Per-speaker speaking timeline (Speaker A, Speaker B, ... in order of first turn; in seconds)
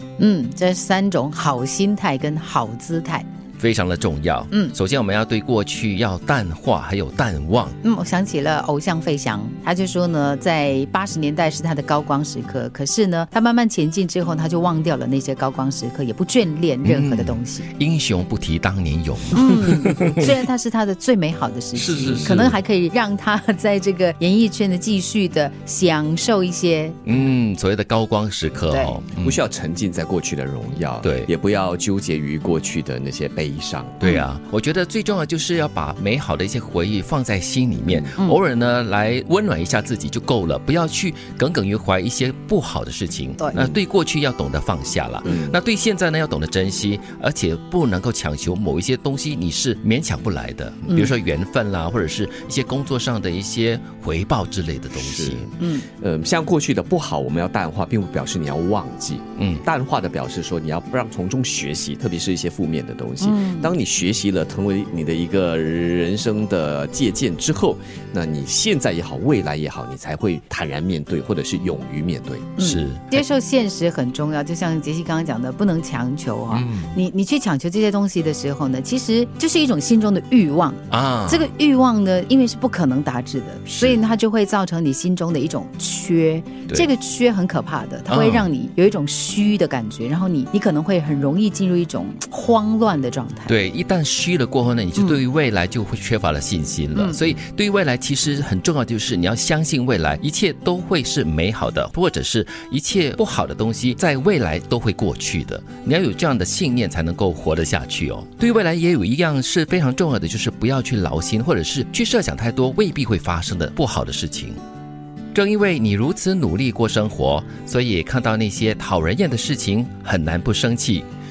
Speaker A: 0.2-3.3, 7.8-17.7, 19.3-27.0, 28.7-29.0, 43.4-43.8, 55.6-55.9, 63.2-63.7, 72.6-93.6, 95.0-95.2, 96.9-97.2
Speaker B: 3.6-7.8, 16.8-20.2, 21.8-22.6, 27.0-29.4, 31.0-31.3, 34.0-55.5, 59.4-59.6, 72.6-73.2, 76.5-77.0, 80.9-81.5, 83.7-84.0, 88.1-88.5, 93.5-114.6, 115.3-121.0
Speaker C: 22.0-22.4, 29.2-34.0, 37.9-38.1, 45.2-45.5, 54.9-72.5